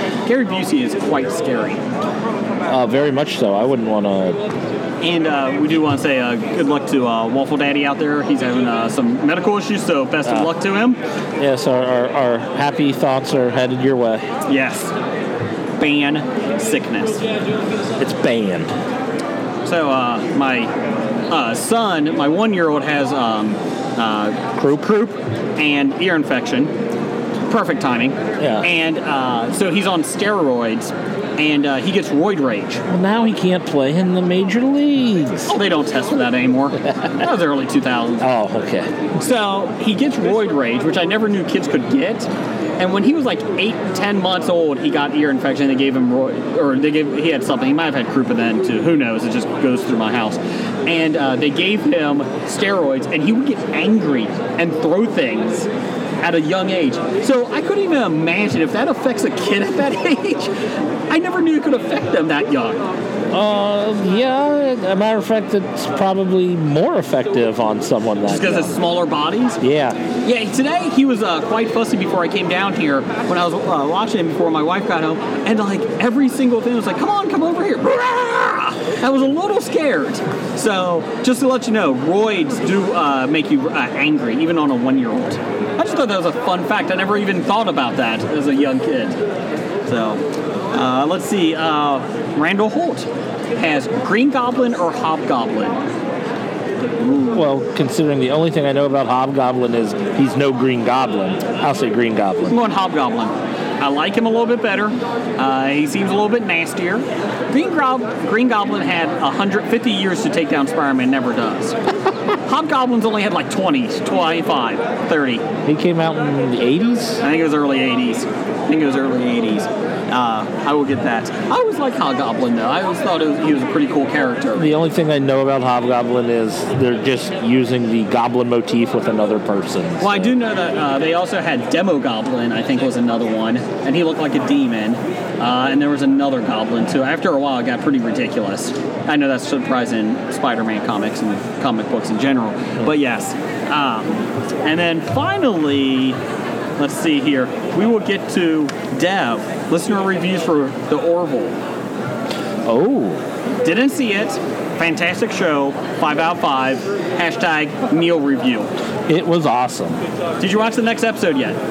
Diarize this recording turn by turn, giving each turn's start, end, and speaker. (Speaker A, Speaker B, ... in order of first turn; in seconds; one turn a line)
Speaker A: 0.2-1.8
Speaker B: 2.6-4.4
Speaker A: 5.0-11.0
Speaker B: 10.2-10.5
Speaker B: 11.4-14.2
Speaker A: 14.5-14.9
Speaker A: 15.8-17.2
Speaker B: 18.0-18.7
Speaker A: 19.6-20.7
Speaker A: 21.3-26.7
Speaker B: 24.6-24.9
Speaker A: 27.5-32.8
Speaker B: 28.4-28.7
Speaker B: 32.9-35.5
Speaker A: 35.5-38.2
Speaker B: 38.2-38.9
Speaker A: 39.2-55.7
Speaker A: 56.2-60.6
Speaker A: 61.1-62.9
Speaker B: 63.3-68.8
Speaker A: 68.3-69.6
Speaker B: 69.6-70.0
Speaker A: 70.2-89.2
Speaker A: 89.8-95.8
Speaker A: 97.0-97.4
Speaker B: 97.3-102.6
Speaker A: 102.5-111.8
Speaker A: 112.5-115.4
Speaker B: 115.6-117.2
Speaker A: 117.2-124.8
Speaker B: 124.5-130.4
Speaker A: 130.0-146.2
Speaker A: 146.8-151.6
Speaker B: 152.6-153.2
Speaker A: 153.6-158.7
Speaker B: 159.1-160.0
Speaker A: 160.4-161.6